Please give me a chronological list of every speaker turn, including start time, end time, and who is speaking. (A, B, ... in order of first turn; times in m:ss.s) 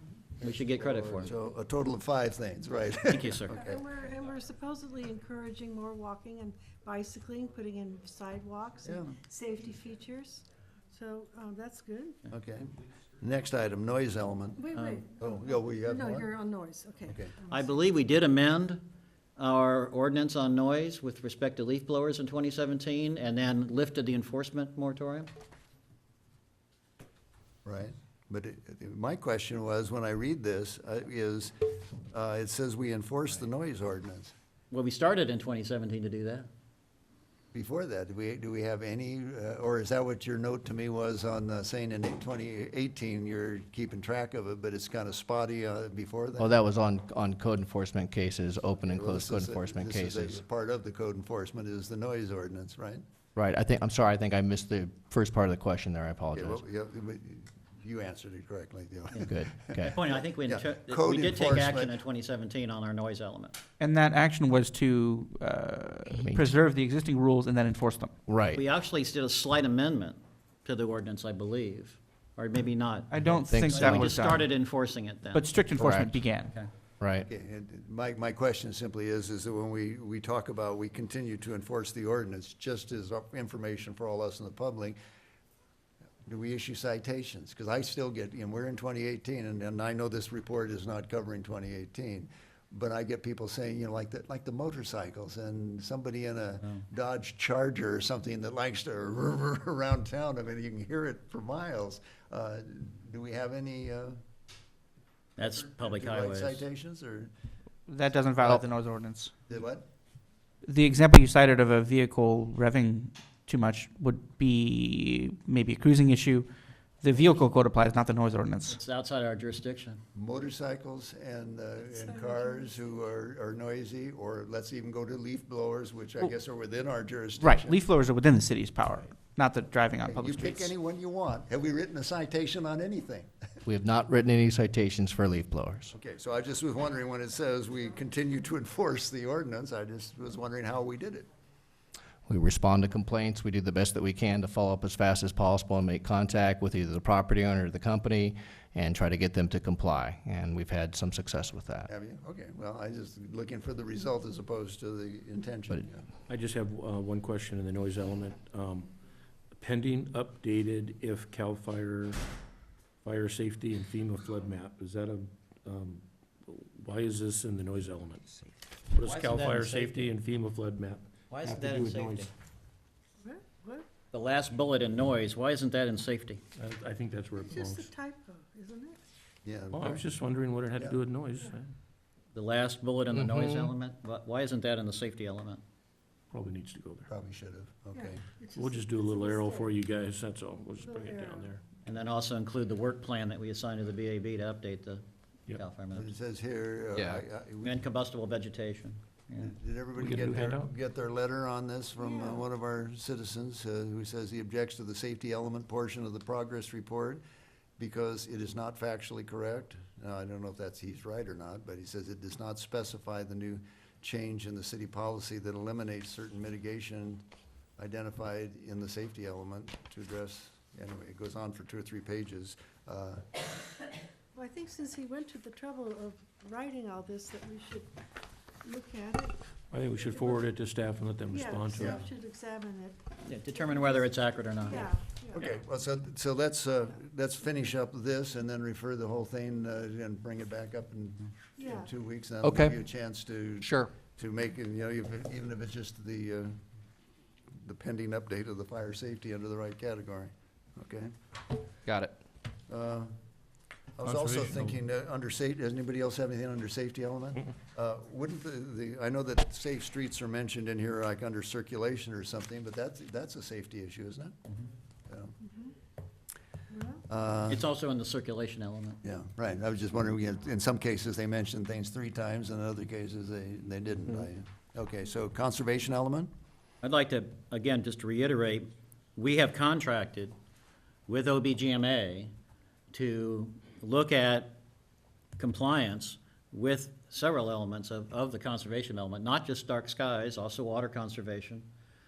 0:00.4-0:01.3 A
0:00.4-0:03.8 B
0:03.1-0:03.7 A
0:03.5-0:12.2 C
0:08.8-0:09.1 B
0:12.3-0:16.3 B
0:14.6-0:17.8 C
0:14.7-0:15.1 A
0:17.1-0:17.3 B
0:17.5-0:18.8 A
0:19.4-0:25.3 A
0:27.6-0:34.3 B
0:34.7-0:36.5 A
0:37.5-0:46.5 B
0:46.4-0:50.4 D
0:48.9-0:53.0 B
0:53.3-0:56.6 D
0:56.3-1:02.0 B
0:59.2-1:00.0 D
0:59.8-1:03.6 A
1:03.8-1:08.1 E
1:06.2-1:06.5 D
1:08.3-1:08.6 D
1:08.5-1:15.8 A
1:13.1-1:14.5 E
1:13.5-1:14.1 D
1:15.3-1:16.5 E
1:15.8-1:16.2 D
1:17.0-1:17.3 D
1:17.2-1:25.0 B
1:26.2-1:44.2 B
1:45.4-1:46.6 A
1:45.4-1:47.3 B
1:47.9-1:49.3 E
1:48.4-1:48.7 B
1:49.5-1:49.8 B
1:50.6-1:56.5 E
1:57.0-1:58.8 E
1:58.7-2:00.0 A
2:00.1-2:07.8 B
2:01.9-2:03.0 C
2:07.4-2:10.7 E
2:10.0-2:13.3 B
2:13.6-2:15.9 D
2:15.9-2:21.3 B
2:22.3-2:31.9 D
2:31.9-2:36.0 B
2:36.3-2:38.9 F
2:39.5-2:42.2 F
2:43.0-2:48.2 F
2:48.9-2:52.3 F
2:49.0-2:50.1 A
2:51.3-2:52.3 A
2:53.2-2:53.9 C
2:54.1-2:56.4 A
2:56.6-2:57.9 F
2:57.3-2:59.0 C
2:59.4-3:00.1 B
2:59.7-3:01.7 F
3:02.3-3:05.6 A
3:03.1-3:03.7 D
3:06.3-3:07.1 F
3:07.1-3:08.2 B
3:07.9-3:09.7 C
3:08.6-3:11.6 F
3:10.8-3:11.6 C
3:11.8-3:16.1 A
3:15.9-3:17.8 B
3:16.9-3:17.2 D
3:17.6-3:19.5 A
3:19.4-3:27.2 B
3:19.9-3:20.7 F
3:22.0-3:22.4 C
3:27.8-3:37.2 B
3:37.8-3:43.2 B
3:44.3-3:47.9 C
3:48.6-3:49.4 C
3:49.7-3:52.0 F
3:50.0-3:50.5 C
3:51.3-3:55.5 C
3:53.2-3:54.9 A
3:55.3-4:06.6 B
4:01.6-4:01.9 C
4:02.4-4:02.8 D
4:03.6-4:03.9 D
4:07.6-4:11.1 B
4:11.9-4:12.1 D
4:12.7-4:13.2 B
4:14.0-4:24.4 B
4:14.0-4:14.8 F
4:25.1-4:25.4 B
4:26.7-4:27.0 C
4:27.1-4:27.6 B
4:27.5-4:29.0 A
4:29.0-4:36.3 B
4:36.8-4:40.3 A
4:41.1-4:42.3 A
4:42.9-4:44.6 A
4:45.4-4:51.7 A